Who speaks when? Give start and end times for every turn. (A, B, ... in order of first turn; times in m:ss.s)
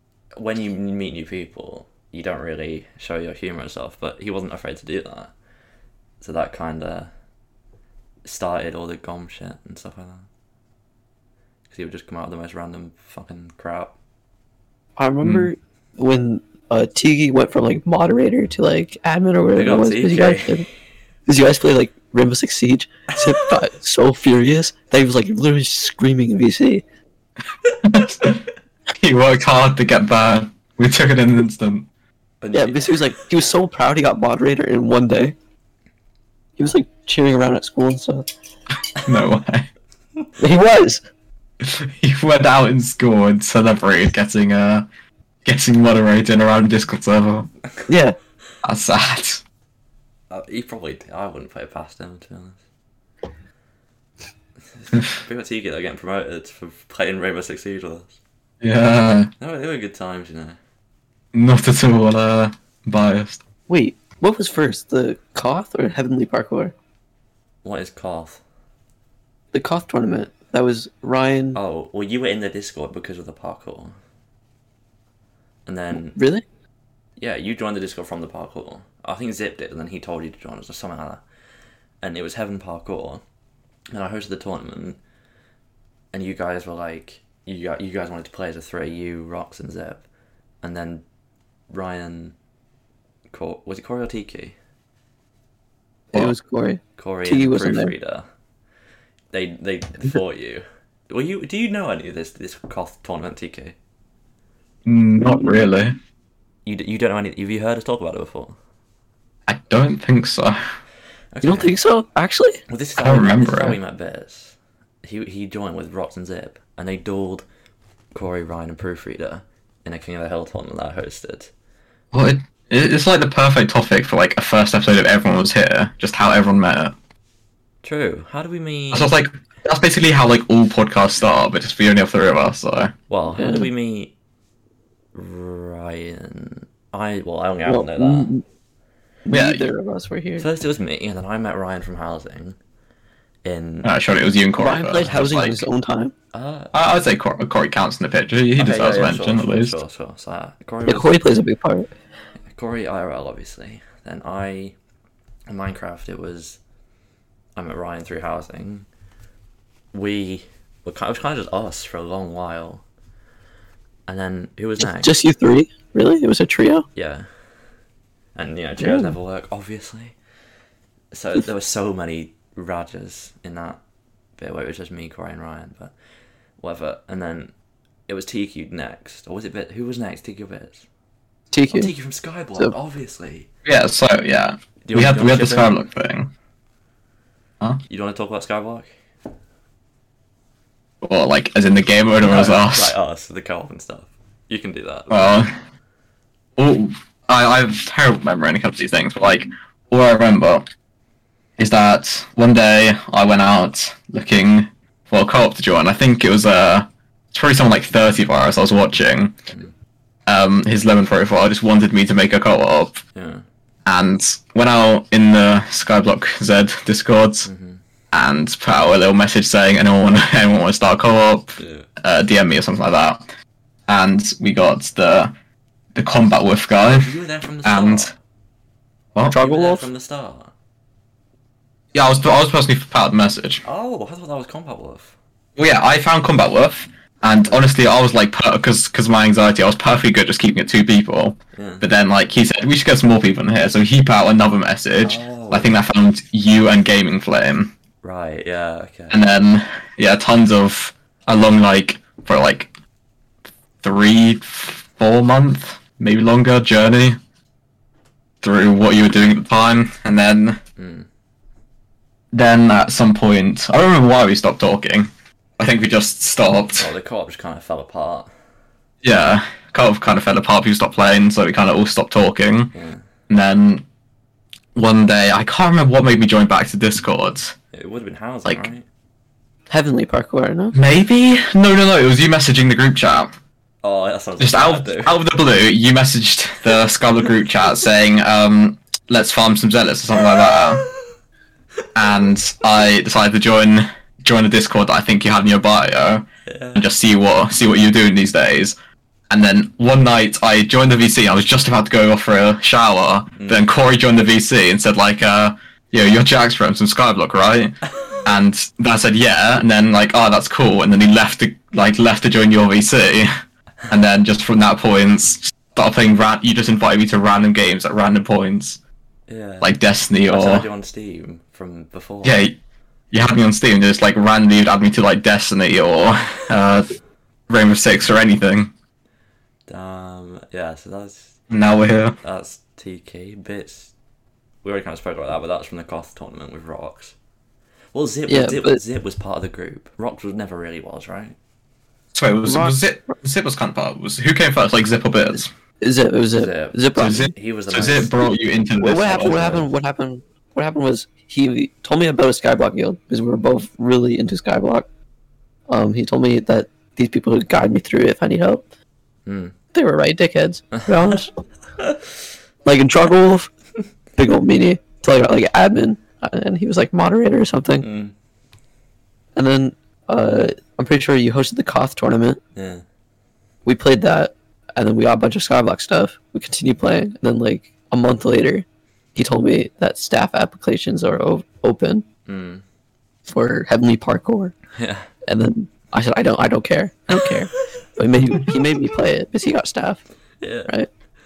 0:00.4-0:05.3 A
0:06.2-0:07.1 A
0:08.2-0:10.3 A
0:11.7-0:14.0 A
0:15.0-0:20.7 B
0:15.2-0:15.5 C
0:19.6-0:20.6 A
0:21.3-0:26.8 B
0:27.8-0:28.4 C
0:29.0-0:31.9 C
0:32.4-0:33.1 A
0:32.5-0:35.4 B
0:36.6-0:38.3 B
0:39.0-0:39.7 C
0:40.4-0:41.0 B
0:41.6-0:44.9 C
0:45.4-0:47.5 C
0:47.9-0:48.2 B
0:48.6-0:49.4 C
0:50.3-0:52.6 A
0:54.8-0:58.2 A
0:58.6-0:59.3 C
0:59.4-1:00.6 A
1:01.3-1:03.4 C
1:03.7-1:06.7 B
1:07.6-1:08.4 A
1:09.5-1:11.6 B
1:11.6-1:13.9 A
1:15.7-1:16.2 A
1:15.9-1:16.4 B
1:17.2-1:21.2 A
1:22.0-1:23.2 A
1:23.9-1:25.0 A
1:26.1-1:30.0 A
1:30.6-1:31.0 A
1:31.7-1:32.4 A
1:33.3-1:34.6 A
1:36.1-1:37.9 B
1:37.0-1:38.3 A
1:39.3-1:43.8 A
1:44.8-1:46.0 C
1:46.6-1:48.6 A
1:49.5-1:50.6 C
1:51.3-1:51.7 A
1:51.4-1:52.6 B
1:52.7-1:57.4 A
1:53.0-1:53.8 C
1:58.1-2:01.5 A
2:02.1-2:06.9 C
2:07.8-2:09.1 A
2:08.9-2:12.9 C
2:13.1-2:14.1 A
2:13.3-2:13.7 B
2:15.1-2:18.3 A
2:17.7-2:18.4 B
2:19.2-2:20.5 B
2:19.3-2:19.6 C
2:20.4-2:22.6 A
2:23.4-2:23.9 A
2:23.8-2:25.6 C
2:24.6-2:26.1 B
2:26.3-2:26.7 A
2:26.7-2:29.8 C
2:28.6-2:31.1 A
2:30.9-2:31.9 B
2:32.5-2:34.8 A
2:35.5-2:36.6 A
2:37.6-2:38.9 A
2:39.9-2:42.8 A
2:44.1-2:45.1 A
2:44.8-2:46.9 B
2:47.0-2:47.3 A
2:48.4-2:50.2 A
2:48.8-2:49.2 B
2:51.1-2:53.8 A
2:54.4-2:55.9 A
2:56.6-2:57.5 A
2:58.1-3:00.9 A
3:01.5-3:01.9 B
3:01.7-3:03.5 A
3:03.6-3:06.3 C
3:04.8-3:05.7 A
3:07.9-3:08.9 A
3:11.0-3:12.9 C
3:12.2-3:15.5 A
3:15.1-3:15.5 C
3:16.6-3:20.7 C
3:21.6-3:29.4 C
3:30.3-3:33.0 C
3:33.2-3:33.4 A
3:33.9-3:37.5 C
3:37.4-3:37.8 A
3:38.1-3:43.2 C
3:41.6-3:41.9 A
3:43.9-3:45.3 C
3:46.0-3:48.1 C
3:46.9-3:48.1 A
3:49.3-3:49.9 B
3:49.3-3:50.5 A
3:51.9-3:53.6 C
3:53.6-3:55.2 A
3:55.6-4:07.7 C
4:01.5-4:01.8 A
4:05.0-4:05.8 A
4:08.0-4:09.2 A
4:09.1-4:12.7 C
4:13.8-4:17.2 C
4:18.4-4:20.6 C
4:20.8-4:21.1 A
4:22.3-4:26.9 C
4:26.8-4:28.3 A
4:29.0-4:32.7 C
4:32.7-4:33.0 A
4:33.3-4:33.8 C
4:34.8-4:37.6 C
4:37.7-4:38.8 A
4:39.7-4:40.8 B
4:40.7-4:43.3 C
4:43.8-4:45.2 A
4:44.4-4:50.9 C
4:50.2-4:51.1 A
4:52.0-4:58.8 C
4:56.5-4:56.8 A
4:59.3-5:13.3 C
5:03.4-5:03.6 A
5:13.9-5:18.8 C
5:19.3-5:19.8 A
5:19.6-5:20.7 C
5:20.3-5:22.4 A
5:22.2-5:22.6 C
5:23.1-5:26.9 C
5:27.5-5:28.7 C
5:29.7-5:31.4 A
5:31.5-5:32.2 C
5:32.2-5:33.9 A
5:34.6-5:37.2 A
5:37.9-5:41.4 A
5:38.3-5:38.8 B
5:42.1-5:45.5 C
5:42.5-5:43.2 B
5:45.8-5:47.3 B
5:46.3-5:48.2 A
5:47.0-5:49.6 C
5:48.8-5:54.9 B
5:49.1-5:49.7 A
5:55.7-5:58.6 B
5:59.3-5:59.6 A
5:59.7-6:01.3 B
6:00.7-6:01.2 A
6:01.8-6:02.2 A
6:02.6-6:03.5 B
6:04.2-6:07.9 B
6:07.8-6:08.1 A
6:09.4-6:12.4 B
6:12.6-6:12.8 A
6:13.6-6:22.0 B
6:22.3-6:22.6 A
6:23.3-6:24.6 B
6:24.8-6:25.1 A
6:25.3-6:30.0 B
6:30.4-6:30.7 A